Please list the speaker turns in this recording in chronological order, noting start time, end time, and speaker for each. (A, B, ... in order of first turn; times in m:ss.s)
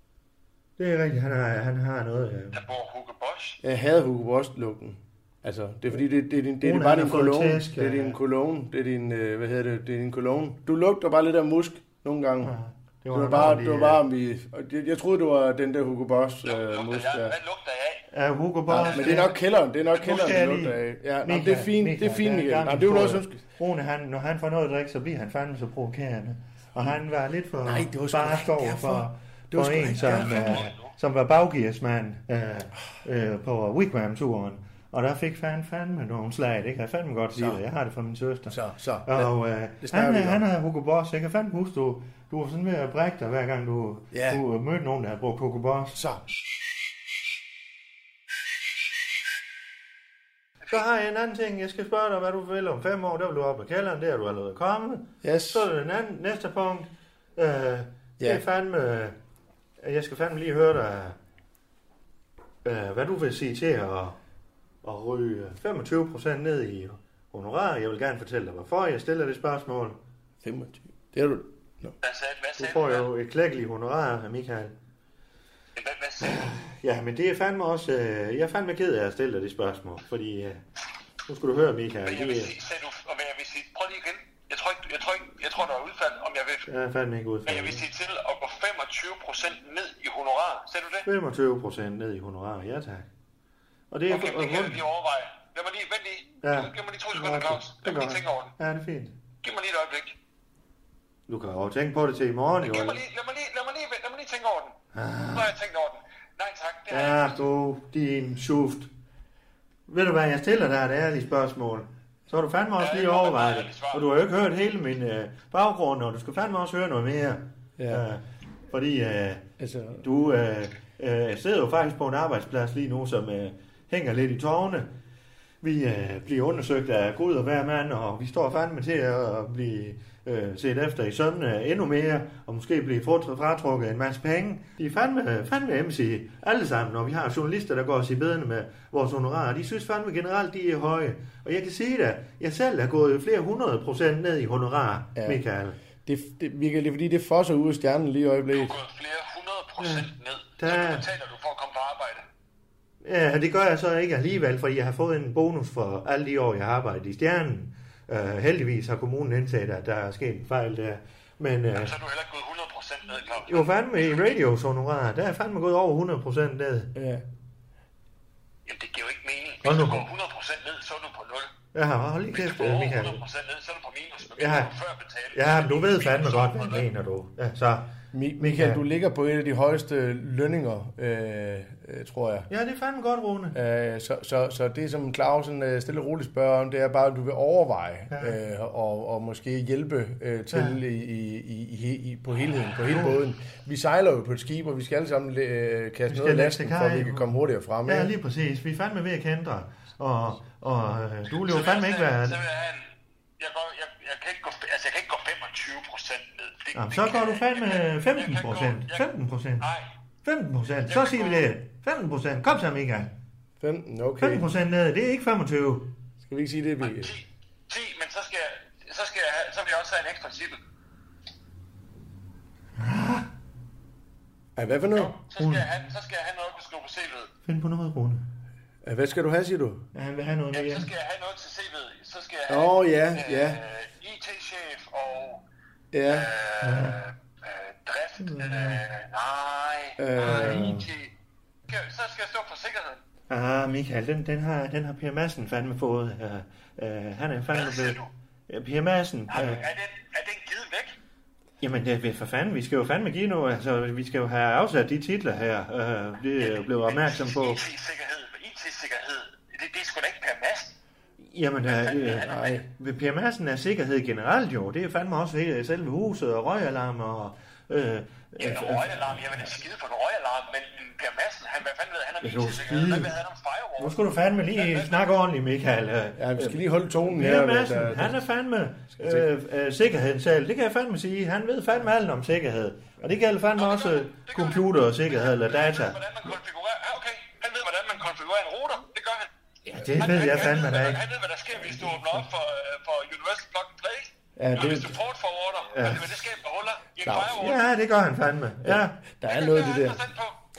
0:00.8-0:02.6 A
0:02.5-0:03.6 B
0:03.6-0:12.6 C
0:06.6-0:08.2 A
0:12.4-0:14.0 A
0:13.1-0:17.4 C
0:16.4-0:18.1 B
0:18.1-0:19.3 A
0:18.7-0:23.4 C
0:18.8-0:19.2 B
0:19.9-0:46.0 A
0:27.6-0:30.7 C
0:30.0-0:30.9 B
0:37.4-0:37.6 C
0:38.5-0:40.4 C
0:44.1-0:44.4 C
0:45.9-0:46.2 C
0:50.7-0:59.2 A
0:55.2-0:55.7 C
0:59.8-1:01.2 A
1:02.6-1:04.2 A
1:04.8-1:10.0 A
1:10.4-1:11.9 C
1:12.0-1:13.1 B
1:12.6-1:14.7 A
1:15.8-1:16.5 B
1:16.2-1:20.6 A
1:21.2-1:22.5 A
1:22.0-1:26.7 B
1:26.7-1:27.8 A
1:27.4-1:31.1 B
1:31.1-1:33.1 A
1:33.9-1:34.8 A
1:34.1-1:38.5 B
1:36.4-1:39.1 A
1:39.4-1:40.1 B
1:41.3-1:43.0 A
1:42.6-1:44.8 B
1:44.9-1:45.5 A
1:45.3-1:47.4 B
1:46.9-1:48.9 A
1:49.9-1:59.4 A
1:52.8-1:54.1 B
1:57.8-1:58.0 C
1:59.6-2:00.0 C
2:00.0-2:04.9 A
2:05.6-2:25.8 A
2:26.0-2:28.8 C
2:28.5-2:32.2 B
2:29.8-2:31.0 A
2:33.0-2:41.9 A
2:41.7-2:44.3 B
2:43.5-2:46.9 A
2:46.9-2:47.2 C
2:48.6-2:51.5 B
2:49.6-2:50.0 A
2:51.7-2:53.2 A
2:52.3-2:56.9 B
2:54.4-2:54.7 A
2:55.3-2:58.8 A
2:58.1-3:02.5 C
3:02.5-3:03.6 A
3:03.5-3:18.1 C
3:12.9-3:13.2 A
3:16.1-3:17.2 A
3:17.8-3:22.4 A
3:21.3-3:22.9 B
3:23.4-3:29.0 B
3:26.7-3:29.7 A
3:29.6-3:29.9 B
3:30.2-3:33.1 A
3:30.9-3:31.5 B
3:33.6-3:34.5 C
3:34.2-3:35.9 A
3:36.2-3:37.1 C
3:36.8-3:40.6 B
3:42.8-3:43.3 A
3:44.6-3:45.1 C
3:44.9-3:47.3 B
3:45.4-3:45.6 A
3:47.5-3:48.2 A
3:48.8-3:49.9 C
3:49.9-3:50.9 A
3:50.5-3:55.4 B
3:52.5-3:53.6 C
3:55.9-3:56.3 C
3:56.1-4:01.1 B
3:56.6-3:57.0 A
3:58.2-3:58.8 A
4:00.0-4:00.9 C
4:00.2-4:00.9 A
4:01.7-4:03.0 B
4:03.3-4:09.6 A
4:07.5-4:08.1 B
4:09.3-4:11.0 B
4:11.6-4:17.6 A
4:16.4-4:20.8 B
4:21.2-4:29.2 A
4:21.6-4:22.6 B
4:22.2-4:22.7 C
4:28.4-4:34.0 B
4:32.2-4:33.1 A
4:33.8-4:46.0 A
4:34.5-4:35.1 B
4:36.2-4:38.2 C
4:39.0-4:39.3 C
4:43.6-4:49.3 B
4:49.7-4:51.0 A
4:49.9-4:57.6 B
4:54.4-4:55.0 C
4:55.7-4:56.2 A
4:57.0-4:57.5 C
4:57.4-4:59.0 A
4:58.6-5:00.1 C
4:59.3-5:00.4 B